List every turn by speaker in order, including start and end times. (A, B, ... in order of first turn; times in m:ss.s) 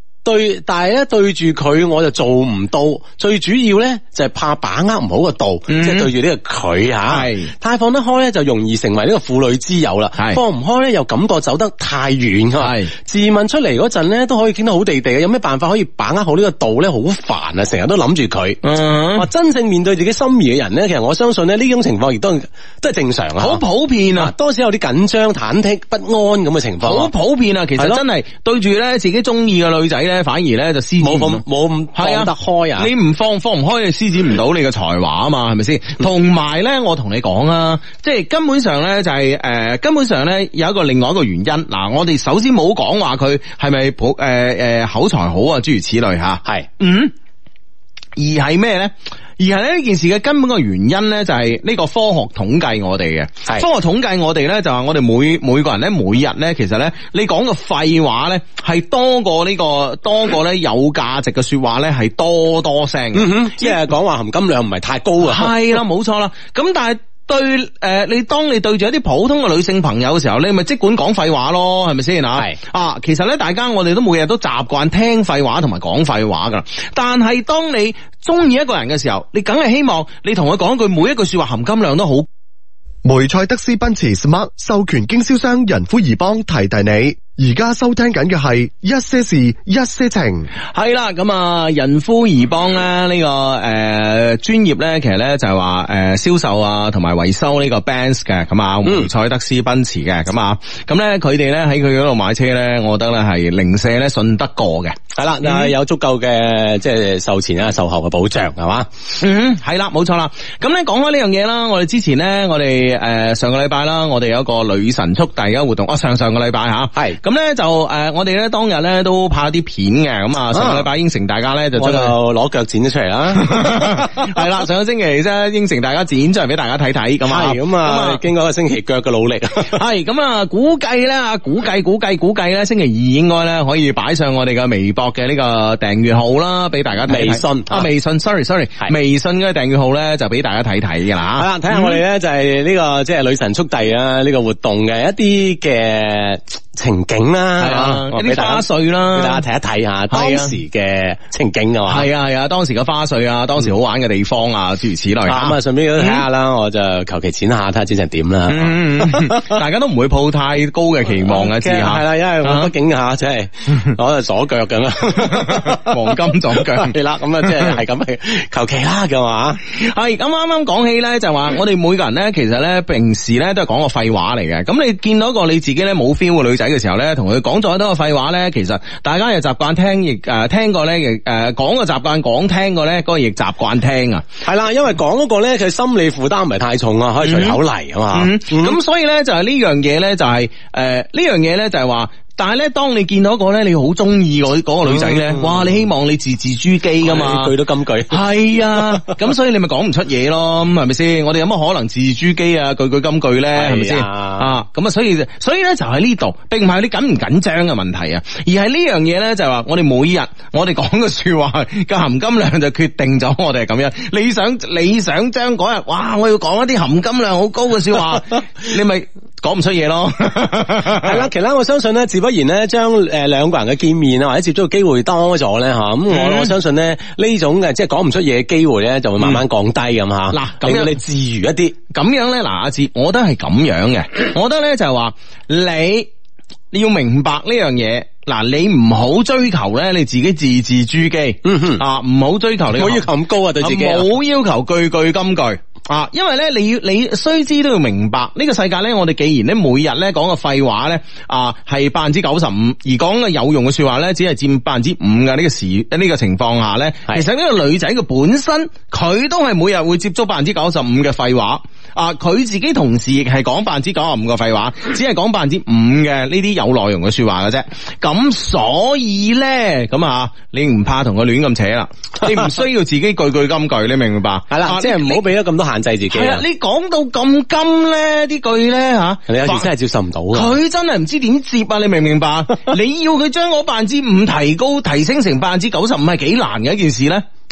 0:00.2-0:18.6 A
0:05.7-0:06.1 B
0:07.1-0:07.5 B
0:12.6-0:12.9 B
0:18.6-0:19.3 B
0:19.2-0:23.6 A
0:23.4-0:24.3 B
0:24.2-0:27.1 A
0:26.8-0:31.4 B
0:31.0-0:32.9 A
0:32.0-0:47.1 B
0:48.2-1:03.8 B
1:03.1-1:05.5 A
1:05.2-1:22.3 B
1:23.0-1:30.5 C
1:30.7-1:45.7 B
1:45.2-1:48.9 A
1:49.2-2:02.1 B
2:00.5-2:00.9 A
2:01.8-2:04.1 A
2:03.4-2:08.2 B
2:07.3-2:09.8 A
2:09.6-2:22.0 B
2:17.1-2:17.9 A
2:21.4-2:32.1 A
2:27.6-2:29.4 B
2:30.1-2:30.6 B
2:31.9-2:36.2 B
2:35.3-2:39.6 A
2:38.5-2:42.7 B
2:41.2-2:49.6 A
2:45.2-2:47.8 B
2:49.7-3:04.2 B
3:04.4-3:08.8 A
3:07.2-3:07.6 B
3:08.1-3:17.5 B
3:14.9-3:15.7 A
3:17.0-3:19.2 A
3:18.1-3:41.3 B
3:23.6-3:24.5 A
3:41.0-3:51.8 A
3:46.1-3:46.5 B
3:50.3-3:51.0 B
3:51.9-3:56.1 B
3:56.7-4:03.1 B
4:01.4-4:01.8 A
4:02.7-4:04.1 A
4:03.6-4:35.2 B
4:34.5-4:36.4 A
4:36.1-4:39.7 B
4:39.3-4:40.6 A
4:40.3-4:47.2 B